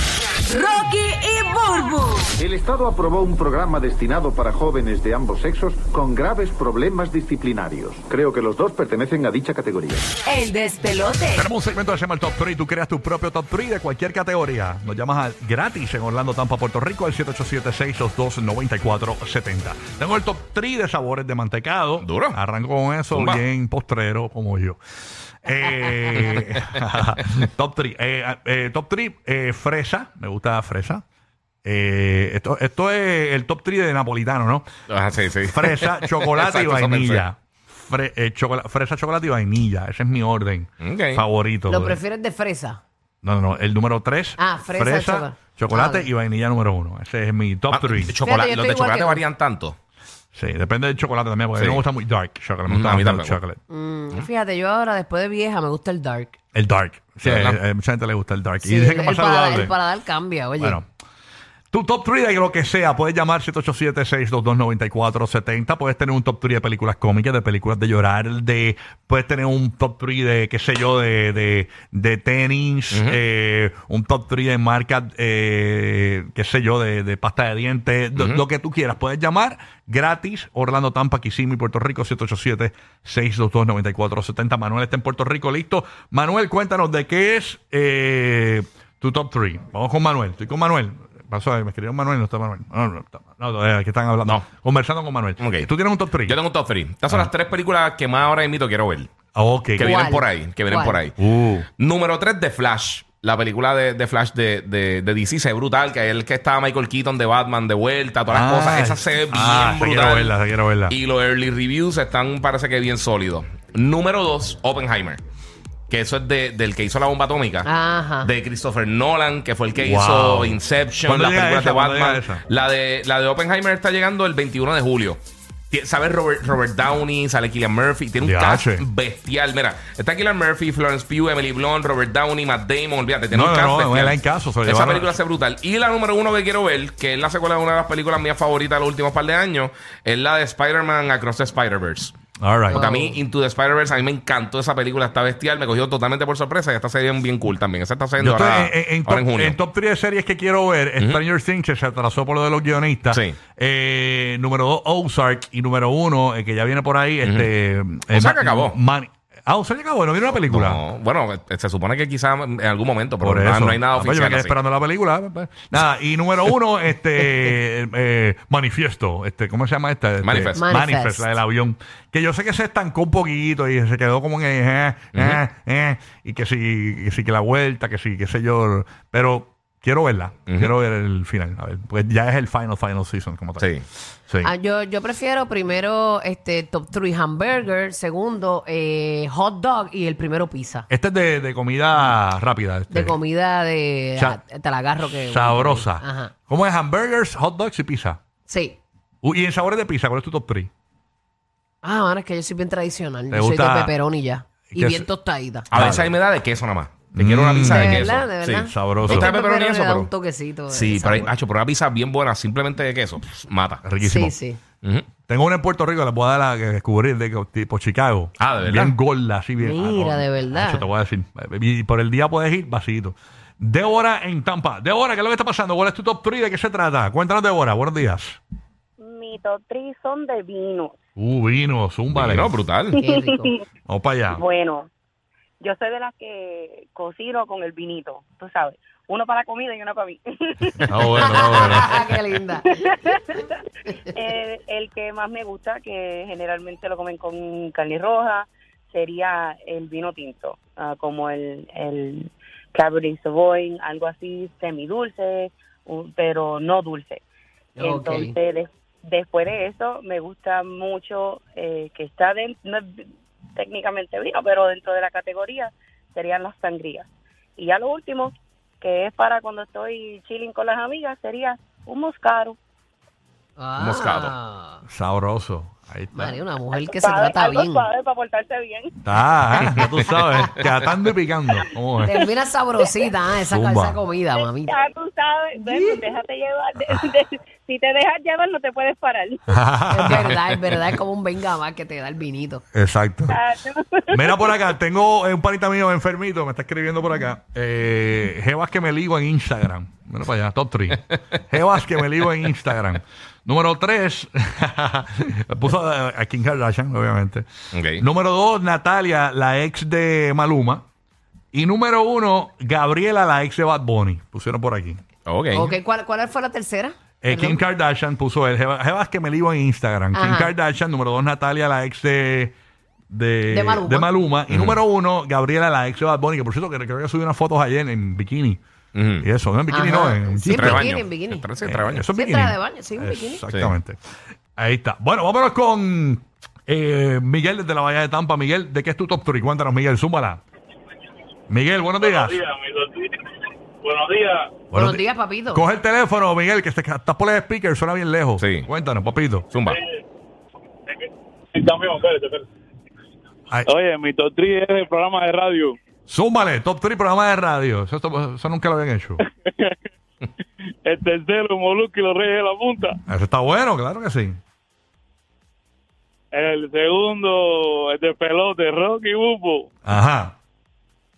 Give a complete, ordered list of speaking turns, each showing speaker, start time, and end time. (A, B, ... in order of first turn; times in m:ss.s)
0:00.5-0:02.3 A
0:02.4-0:10.0 B
0:10.3-0:11.4 A
0:11.3-0:24.8 C
0:22.0-0:22.4 D
0:23.1-0:23.4 D
0:25.4-0:31.0 C
0:31.6-0:34.7 C
0:34.9-0:37.2 D
0:35.4-0:42.0 C
0:40.8-0:41.2 D
0:41.7-0:42.8 E
0:43.2-0:48.1 C
0:44.4-0:46.1 E
0:47.7-0:49.8 D
0:48.2-0:49.2 E
0:50.3-0:53.6 C
0:51.6-0:51.8 D
0:52.7-0:53.4 D
0:53.7-0:56.4 E
0:56.5-0:59.7 C
0:57.2-0:57.6 D
0:58.6-1:00.8 E
1:00.6-1:00.8 C
1:01.7-1:36.4 C
1:12.9-1:13.2 D
1:18.2-1:18.4 D
1:35.4-1:35.7 D
1:36.2-1:39.1 D
1:39.3-1:40.1 C
1:39.8-1:41.2 D
1:39.8-1:41.0 E
1:41.2-1:41.7 C
1:41.8-1:50.4 D
1:48.3-1:50.9 C
1:50.9-1:55.2 D
1:55.9-1:57.7 D
1:57.6-1:58.3 E
1:58.2-2:05.2 D
1:59.8-2:02.4 C
2:05.7-2:22.1 D
2:08.2-2:08.8 C
2:13.3-2:15.2 C
2:22.4-2:22.8 C
2:22.7-2:29.6 D
2:22.7-2:23.2 E
2:28.2-2:40.8 C
2:33.1-2:33.4 D
2:37.2-2:37.5 D
2:38.1-2:38.8 D
2:40.5-2:44.6 D
2:43.2-3:03.7 C
2:50.2-2:50.6 D
2:50.5-2:51.3 E
2:55.1-2:55.4 D
3:03.6-3:03.8 D
3:04.4-3:10.9 E
3:10.9-3:13.2 C
3:12.9-3:16.3 E
3:15.0-3:18.2 C
3:18.5-3:18.8 E
3:19.2-3:20.7 C
3:21.8-3:25.7 E
3:23.3-3:23.9 C
3:24.7-3:25.1 C
3:25.7-3:26.2 C
3:25.7-3:30.1 D
3:27.1-3:28.0 C
3:27.6-3:31.3 E
3:28.7-3:29.3 C
3:30.7-3:33.8 D
3:33.8-3:34.3 C
3:34.0-3:34.6 E
3:35.3-3:48.4 C
3:38.4-3:39.0 D
3:39.6-3:40.9 E
3:49.0-3:50.9 F
3:51.2-3:52.6 C
3:52.1-3:53.0 D
3:53.0-3:53.5 E
3:53.0-3:53.6 F
3:53.9-3:54.4 C
3:54.3-3:54.9 F
3:55.6-4:01.8 F
4:00.8-4:02.0 C
4:01.6-4:02.8 E
4:02.7-4:03.4 F
4:04.1-4:17.2 F
4:17.8-4:18.3 E
4:17.8-4:23.0 F
4:23.6-4:32.6 F
4:33.6-4:34.8 E
4:33.8-4:34.3 D
4:34.9-4:36.4 C
4:36.1-4:37.8 E
4:36.8-4:38.9 F
4:39.0-4:42.2 C
4:40.2-4:40.5 E
4:42.0-4:44.9 E
4:43.5-4:44.0 C
4:44.4-4:49.6 F
4:45.6-4:46.1 E
4:49.5-4:50.3 C
4:49.9-4:52.6 E
4:52.7-4:53.4 C
4:53.3-4:54.5 F
4:54.1-5:07.4 C
5:07.7-5:08.0 D
5:08.0-5:10.8 C
5:11.5-5:15.0 C
5:15.2-5:15.7 D
5:15.5-5:17.6 E
5:17.2-5:22.5 C
5:20.1-5:20.5 E
5:23.1-5:28.6 C
5:23.5-5:24.1 E
5:24.5-5:24.8 D
5:28.9-5:29.2 D
5:29.2-5:30.9 C
5:29.7-5:31.5 E
5:30.5-5:32.0 D
5:31.6-5:34.0 C
5:32.1-5:33.4 E
5:34.6-5:40.4 C
5:41.5-5:42.4 C
5:42.0-5:43.2 G
5:43.8-5:44.6 G
5:44.7-5:49.5 C
5:44.7-5:45.6 E
5:48.4-5:48.7 D
5:49.5-5:49.8 D
5:50.9-5:52.4 G
5:53.6-5:55.8 G
5:56.1-5:59.2 C
5:59.2-5:59.8 G
6:00.8-6:03.0 G
6:03.1-6:04.4 C
6:06.3-6:09.7 G
6:09.8-6:10.3 C